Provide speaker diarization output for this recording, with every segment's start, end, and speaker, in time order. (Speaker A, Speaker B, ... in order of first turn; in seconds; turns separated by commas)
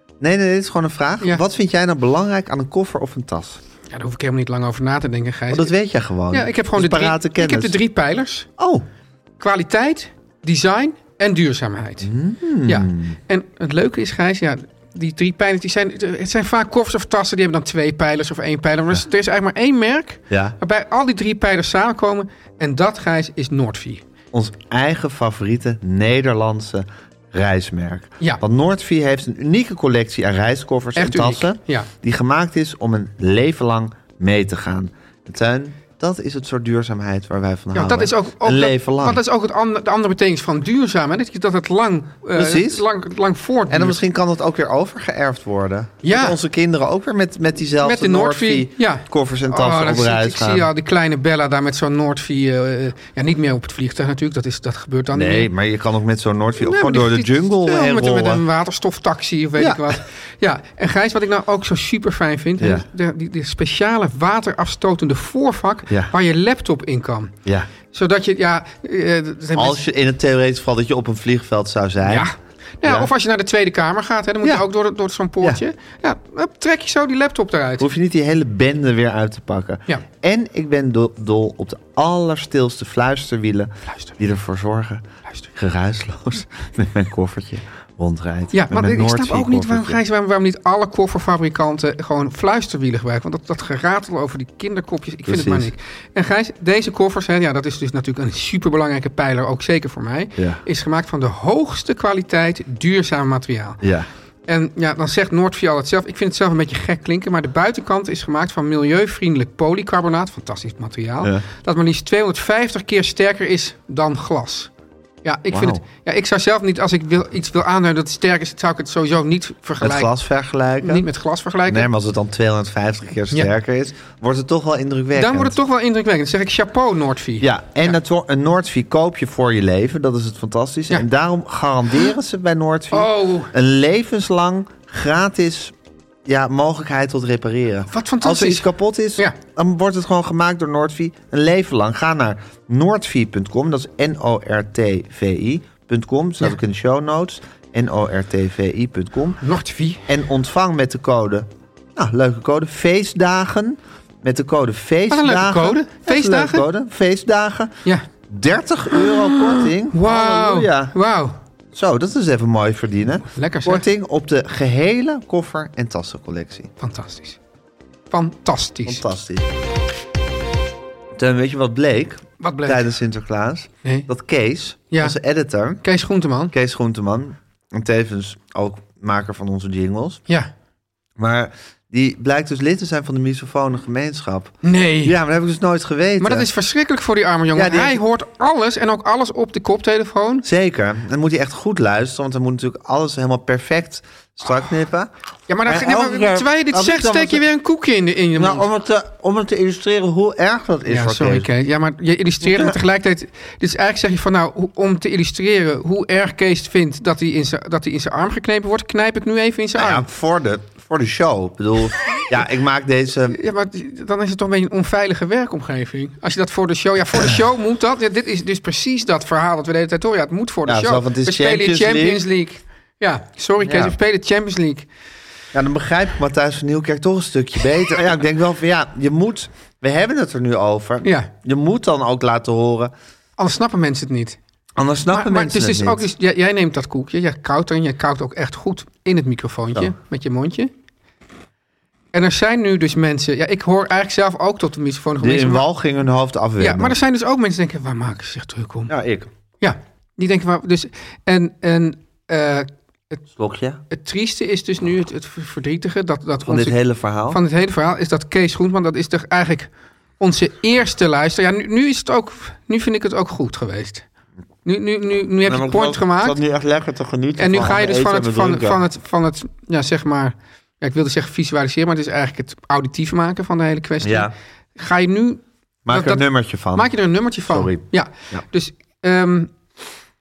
Speaker A: 0.2-3.6, Speaker B: 3.9-5.7, Speaker A: 5.5-7.8, Speaker B: 6.3-8.5, Speaker A: 8.6-8.9, Speaker B: 9.4-12.1, Speaker A: 12.0-13.2, Speaker B: 12.7-24.0, Speaker A: 20.3-20.6, Speaker A: 24.3-39.2, Speaker B: 31.0-31.9, Speaker B: 37.7-44.0, Speaker A: 42.3-42.9, Speaker A: 43.7-50.7, Speaker B: 46.0-46.4, Speaker B: 47.8-55.5, Speaker A: 55.1-58.4, Speaker B: 56.6-67.3, Speaker A: 59.6-60.0, Speaker A: 62.6-62.8, Speaker A: 65.9-66.1, Speaker B: 67.9-69.8, Speaker A: 69.5-72.3, Speaker B: 72.0-77.9, Speaker A: 72.8-73.1, Speaker A: 77.8-90.0, Speaker B: 83.9-84.2, Speaker B: 88.5-103.8, Speaker A: 95.3-95.7, Speaker A: 103.8-104.1, Speaker B: 104.5-114.7, Speaker B: 115.2-120.1, Speaker A: 115.5-115.8, Speaker A: 119.8-121.1, Speaker B: 120.8-121.9, Speaker A: 121.7-125.5, Speaker B: 125.1-128.0, Speaker A: 127.4-135.7, Speaker B: 132.9-133.5, Speaker A: 136.2-149.4, Speaker B: 137.9-139.4, Speaker B: 149.4-150.0, Speaker A: 150.1-157.8, Speaker B: 155.1-156.7, Speaker A: 158.3-160.9, Speaker B: 158.9-161.4, Speaker A: 161.7-166.7, Speaker B: 163.3-163.8, Speaker B: 166.8-167.4, Speaker B: 168.1-169.1, Speaker A: 168.9-169.5, Speaker A: 171.2-175.8, Speaker B: 172.4-172.9, Speaker B: 174.9-175.2, Speaker B: 175.8-176.5, Speaker A: 176.5-180.2, Speaker A: 181.2-186.5, Speaker B: 184.6-185.2, Speaker B: 186.2-190.5, Speaker A: 187.6-188.0, Speaker A: 190.4-195.1, Speaker B: 195.5-198.7, Speaker A: 195.7-197.4, Speaker A: 198.3-201.5, Speaker B: 200.9-210.1, Speaker A: 202.4-202.8, Speaker A: 209.8-213.4, Speaker B: 213.3-224.9, Speaker A: 220.7-222.2, Speaker A: 223.6-223.9, Speaker A: 225.5-232.9, Speaker B: 231.0-231.3, Speaker B: 233.4-234.4, Speaker A: 234.8-236.0, Speaker B: 235.1-240.7, Speaker B: 242.1-245.7, Speaker A: 245.2-246.9, Speaker B: 246.6-248.9, Speaker A: 248.9-249.3, Speaker B: 249.6-253.2, Speaker A: 253.4-253.8, Speaker B: 253.9-264.1, Speaker A: 256.4-257.4, Speaker B: 264.6-266.4, Speaker A: 265.4-268.8, Speaker B: 267.4-279.5, Speaker A: 274.0-274.3, Speaker A: 275.9-276.9, Speaker A: 277.5-278.5